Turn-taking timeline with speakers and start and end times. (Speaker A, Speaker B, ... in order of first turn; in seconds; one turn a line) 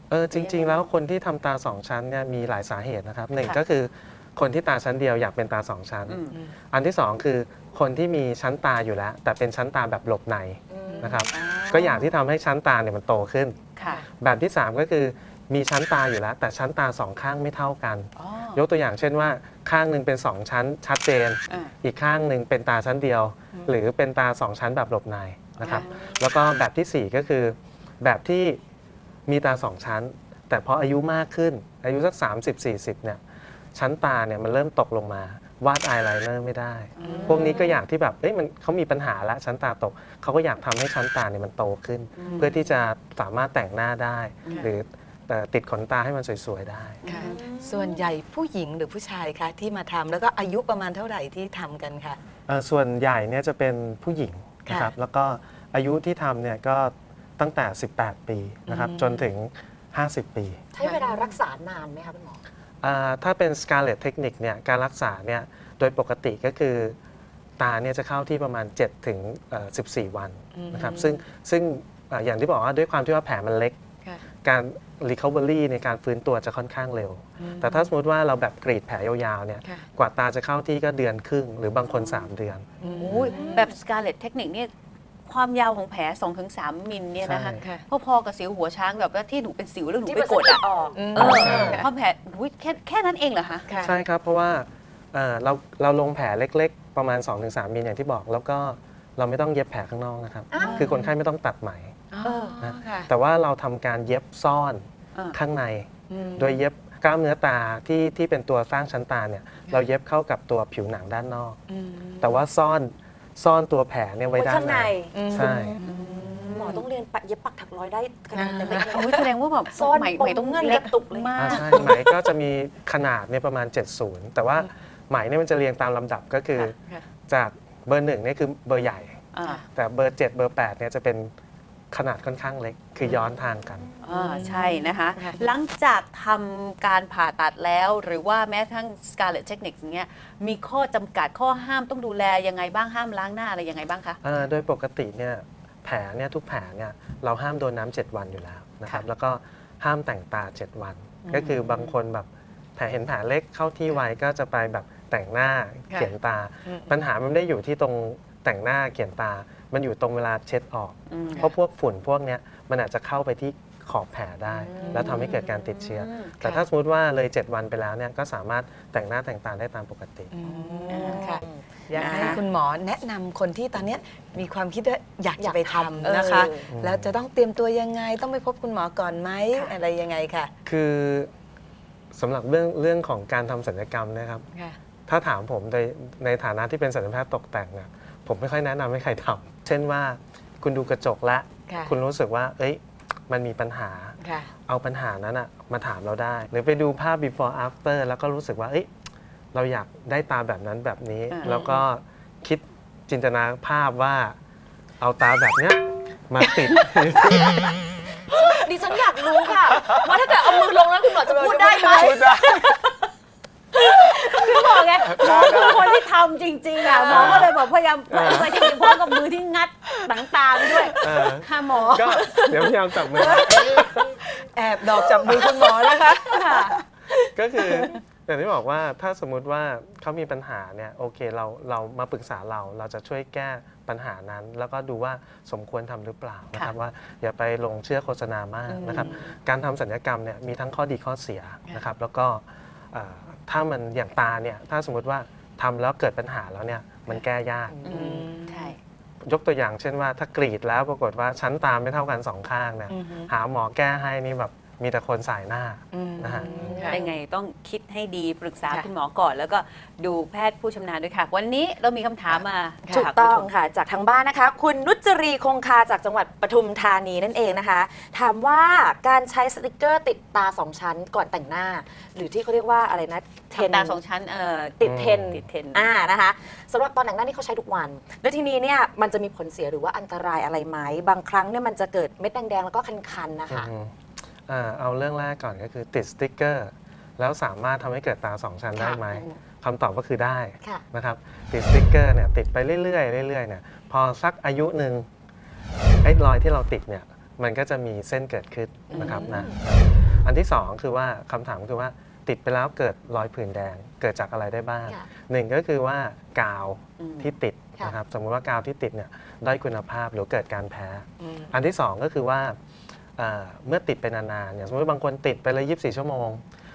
Speaker A: 0.1-28.6
Speaker B: 0.3-0.9
Speaker B: 6.1-6.4
Speaker C: 10.7-11.3
Speaker D: 10.9-11.2
Speaker B: 11.3-12.1
Speaker B: 13.8-14.0
Speaker B: 18.2-18.6
Speaker B: 21.5-21.7
Speaker B: 25.6-26.2
Speaker A: 29.3-33.2
Speaker A: 33.7-47.1
Speaker B: 37.0-37.8
Speaker D: 37.0-37.6
Speaker B: 42.2-42.7
Speaker B: 44.4-44.7
Speaker B: 47.0-48.0
Speaker D: 47.0-52.2
Speaker A: 52.5-60.6
Speaker D: 54.7-54.9
Speaker D: 58.7-59.3
Speaker C: 60.8-62.4
Speaker D: 60.8-61.4
Speaker A: 62.8-67.0
Speaker A: 67.6-73.8
Speaker D: 70.5-71.3
Speaker A: 74.4-83.3
Speaker D: 77.4-77.9
Speaker B: 81.8-82.3
Speaker D: 82.8-83.3
Speaker B: 83.0-84.7
Speaker C: 83.3-83.7
Speaker B: 85.3-93.7
Speaker A: 87.2-87.6
Speaker C: 90.0-91.8
Speaker D: 90.9-91.9
Speaker A: 91.2-91.8
Speaker D: 93.7-94.0
Speaker A: 93.8-102.0
Speaker C: 100.5-100.8
Speaker B: 100.6-101.0
Speaker D: 100.7-101.0
Speaker D: 102.1-103.1
Speaker B: 102.2-102.6
Speaker A: 102.6-111.6
Speaker D: 106.1-106.6
Speaker D: 111.7-112.5
Speaker A: 112.2-115.8
Speaker C: 114.3-115.7
Speaker D: 115.1-116.5
Speaker B: 115.8-116.9
Speaker C: 116.3-119.2
Speaker D: 118.3-119.2
Speaker B: 118.7-121.9
Speaker C: 119.7-121.8
Speaker A: 121.3-131.3
Speaker D: 121.7-122.1
Speaker B: 129.3-129.6
Speaker A: 131.9-133.9
Speaker B: 134.0-144.2
Speaker D: 134.1-135.5
Speaker A: 144.2-170.3
Speaker D: 151.3-151.5
Speaker B: 151.4-151.9
Speaker D: 156.7-156.9
Speaker B: 161.1-161.5
Speaker B: 164.7-166.6
Speaker D: 164.8-165.3
Speaker D: 170.3-180.5
Speaker B: 170.4-171.4
Speaker C: 171.2-171.5
Speaker B: 171.9-172.4
Speaker C: 172.1-172.4
Speaker C: 175.4-176.7
Speaker B: 176.0-176.5
Speaker A: 176.7-177.2
Speaker A: 180.7-181.3
Speaker A: 182.1-184.5
Speaker A: 185.1-198.9
Speaker D: 191.7-192.0
Speaker D: 194.2-194.5
Speaker A: 199.5-204.4
Speaker B: 201.3-201.8
Speaker A: 205.0-207.8
Speaker C: 208.4-212.1
Speaker A: 209.7-210.2
Speaker D: 210.6-212.5
Speaker B: 211.8-212.9
Speaker A: 212.1-212.5
Speaker B: 213.8-222.7
Speaker A: 215.0-215.8
Speaker D: 215.2-215.5
Speaker D: 216.8-217.5
Speaker A: 217.0-217.5
Speaker A: 218.1-218.6
Speaker D: 220.8-221.3
Speaker A: 221.0-224.1
Speaker D: 221.9-222.6
Speaker D: 223.1-228.0
Speaker B: 226.3-226.8
Speaker A: 227.3-248.3
Speaker D: 238.7-239.3
Speaker D: 247.8-248.7
Speaker B: 247.8-248.8
Speaker A: 249.2-256.9
Speaker D: 252.9-253.3
Speaker D: 255.9-257.0
Speaker B: 256.9-263.5
Speaker C: 262.9-274.0
Speaker B: 273.5-275.9
Speaker C: 274.8-283.7
Speaker A: 274.8-275.4
Speaker A: 283.5-295.1
Speaker C: 288.8-289.3
Speaker A: 296.0-312.6
Speaker B: 298.9-299.2
Speaker C: 298.9-299.6
Speaker B: 307.0-307.3
Speaker D: 311.2-311.5
Speaker A: 313.2-316.4